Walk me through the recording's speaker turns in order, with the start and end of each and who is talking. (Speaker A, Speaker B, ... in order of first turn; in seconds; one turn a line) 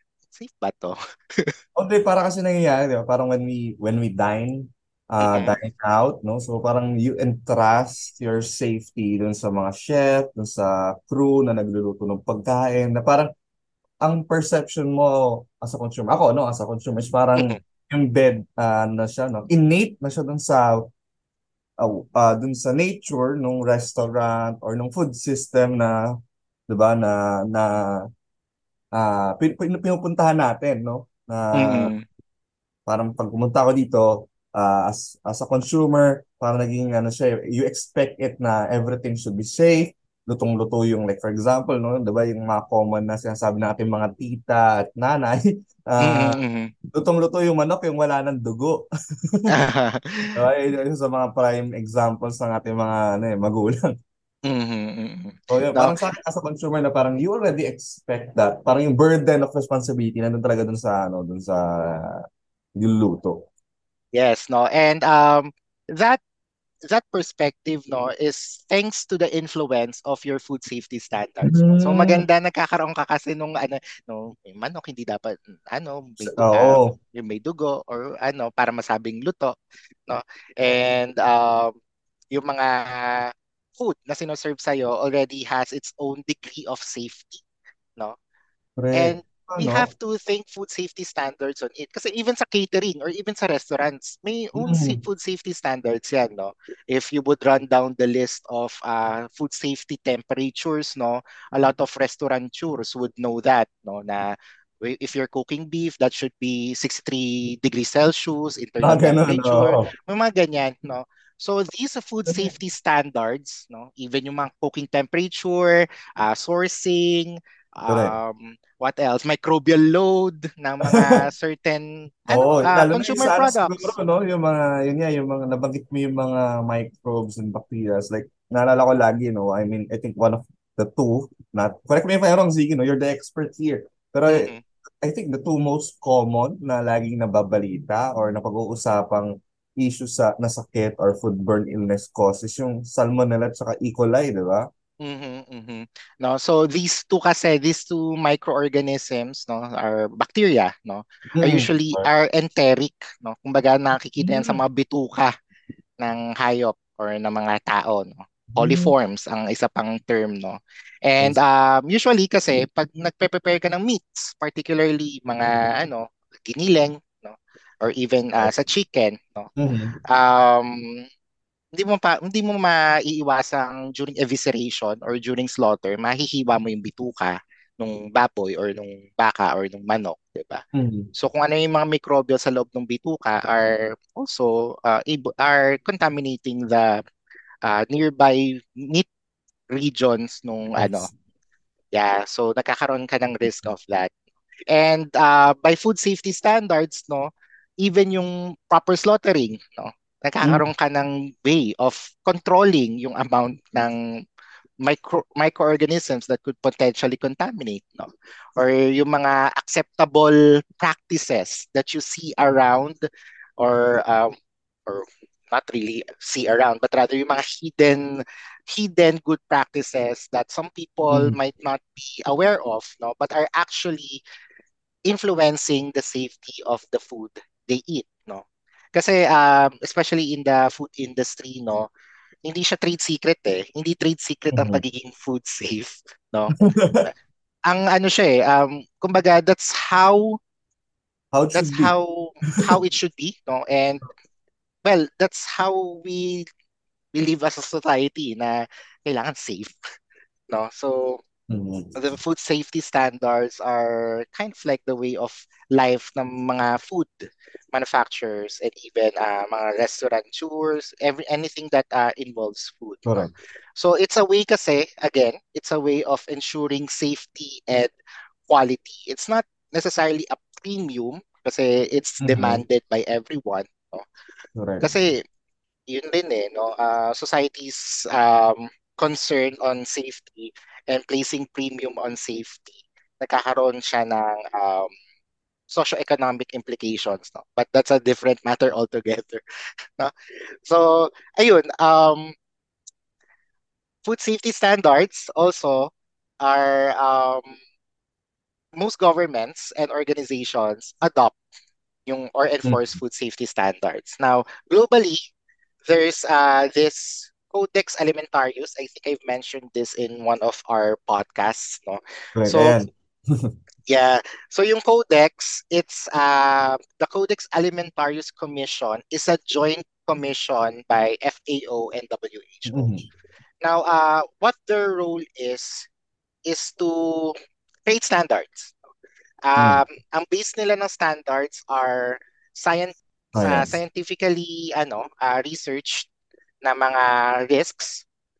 Speaker A: 0.3-1.5
Speaker B: 1.8-13.3
Speaker A: 5.2-5.6
Speaker B: 14.0-20.9
Speaker B: 21.8-26.1
Speaker B: 26.7-28.0
Speaker B: 28.9-31.9
Speaker A: 31.5-32.0
Speaker B: 32.9-46.4
Speaker A: 46.0-46.7
Speaker B: 46.9-49.5
Speaker A: 49.5-50.4
Speaker B: 50.4-53.9
Speaker A: 54.5-56.0
Speaker B: 55.5-62.2
Speaker B: 62.8-63.5
Speaker A: 64.1-66.2
Speaker A: 66.9-81.8
Speaker B: 71.4-72.3
Speaker B: 76.2-77.0
Speaker A: 82.3-87.4
Speaker B: 88.8-89.9
Speaker A: 88.9-124.0
Speaker B: 94.6-95.0
Speaker B: 108.8-109.9
Speaker B: 117.9-118.2
Speaker B: 120.9-121.2
Speaker B: 122.3-134.5
Speaker A: 134.3-134.6
Speaker B: 135.0-144.7
Speaker A: 145.0-155.3
Speaker B: 151.4-152.1
Speaker B: 154.2-154.6
Speaker A: 156.0-169.5
Speaker B: 158.6-158.9
Speaker B: 169.6-169.9
Speaker A: 170.1-171.1
Speaker A: 171.7-180.6
Speaker B: 180.8-181.1
Speaker A: 181.1-187.0
Speaker A: 187.6-189.1
Speaker A: 189.7-191.1
Speaker B: 190.8-191.1
Speaker A: 191.9-194.1
Speaker A: 194.7-197.3
Speaker A: 197.8-204.0
Speaker A: 204.8-213.0
Speaker A: 213.6-214.3
Speaker A: 214.9-224.2
Speaker A: 225.1-231.9
Speaker A: 232.4-237.1
Speaker B: 234.6-234.8
Speaker B: 236.6-237.1
Speaker A: 237.7-240.4
Speaker B: 241.3-241.9
Speaker A: 241.5-244.1
Speaker A: 244.8-246.4
Speaker A: 247.1-249.7
Speaker A: 250.5-251.2
Speaker B: 251.5-251.9
Speaker A: 251.9-267.9
Speaker B: 263.1-263.3
Speaker A: 268.5-274.1
Speaker B: 272.2-272.6
Speaker B: 274.6-274.9
Speaker A: 274.8-275.2
Speaker A: 275.9-284.9
Speaker A: 285.7-289.4
Speaker A: 290.6-292.4
Speaker A: 294.1-297.6
Speaker A: 298.8-301.4
Speaker A: 302.1-305.3
Speaker A: 305.9-312.9
Speaker B: 312.4-313.5
Speaker A: 313.9-323.1
Speaker B: 322.7-323.1
Speaker A: 323.6-325.9
Speaker A: 326.5-327.4
Speaker A: 327.9-328.8
Speaker A: 329.4-336.1
Speaker B: 329.6-329.8
Speaker B: 333.4-333.7
Speaker A: 336.6-338.1